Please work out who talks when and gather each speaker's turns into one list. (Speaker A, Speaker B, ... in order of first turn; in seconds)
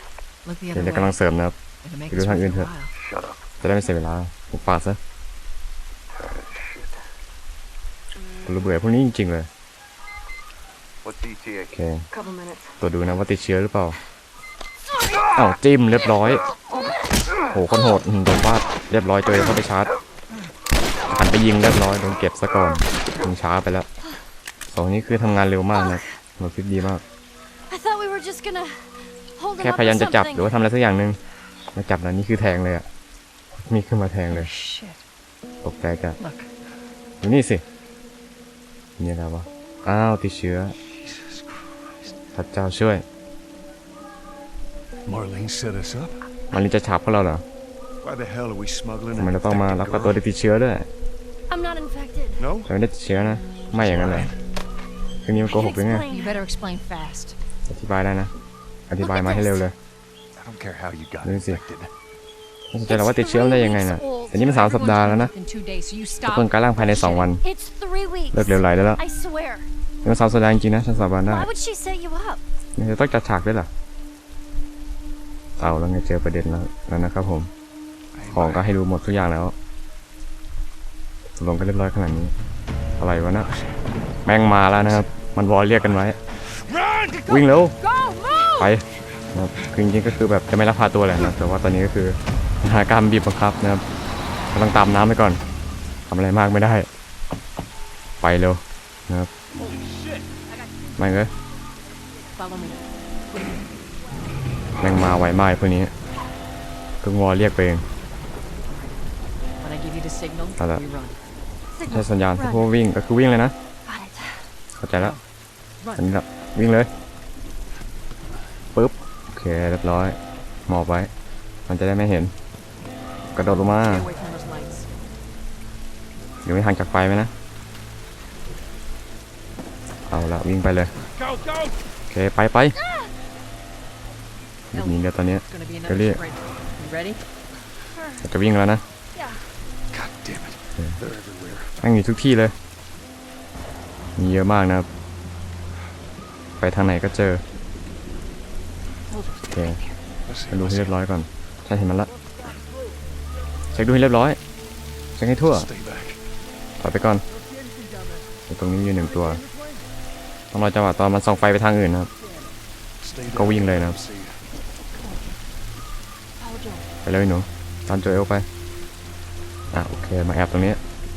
Speaker A: 0.5-1.2, 1.8-3.0, 34.3-35.0, 36.2-36.5, 56.1-57.4, 62.9-67.3, 87.8-88.7, 102.4-103.6, 108.6-111.2, 115.0-115.2, 115.8-116.1, 123.4-125.0, 134.7-137.2, 149.1-150.0
Speaker B: 0.7-1.6, 2.1-2.7, 3.6-5.0, 8.4-9.5, 11.7-12.1, 12.8-14.0, 15.3-16.5, 17.5-19.9, 21.1-23.9, 24.7-27.0, 29.6-31.2, 31.7-32.9, 33.7-34.5, 35.6-36.2, 37.2-37.6, 39.0-40.8, 42.3-43.0, 46.5-47.5, 49.2-50.9, 52.6-54.3, 55.2-56.1, 57.7-58.3, 58.9-59.8, 61.2-61.6, 62.7-65.3, 66.2-67.4, 68.3-69.0, 70.0-71.5, 72.8-73.7, 75.6-77.5, 78.3-79.5, 81.4-82.3, 83.0-83.5, 84.2-86.2, 87.3-87.8, 88.5-93.8, 94.5-95.4, 96.1-96.9, 98.2-99.3, 101.0-101.3, 104.8-105.9, 107.0-107.8, 111.9-113.5, 114.8-115.2, 116.0-116.9, 118.7-121.1, 121.7-122.3, 123.3-124.1, 126.4-127.3, 130.1-130.9, 132.1-132.8, 134.7-136.2, 138.2-138.8, 141.8-142.6, 144.2-144.9, 146.6-147.4, 149.5-149.8, 150.5-152.1, 153.7-154.4, 155.2-155.7, 156.8-157.2, 158.5-159.4, 160.5-162.1, 163.3-164.0, 167.0-168.5, 169.7-170.8
Speaker C: 3.0-3.4, 6.2-6.9, 11.1-11.7, 40.9-42.1, 45.1-46.2, 48.0-50.2, 52.4-52.7, 53.7-54.4, 60.4-61.9, 78.2-78.8, 86.7-87.3, 99.9-100.2, 131.1-131.8, 139.9-141.8, 150.2-151.0, 155.4-156.2, 163.0-164.4
Speaker D: 12.1-12.8, 25.7-26.0, 27.6-30.6, 51.5-52.5, 55.5-56.5, 59.0-59.7, 67.4-69.7, 71.3-72.4, 111.7-112.7, 113.8-114.5, 137.9-138.2, 139.2-139.4, 165.0-165.4, 166.4-166.9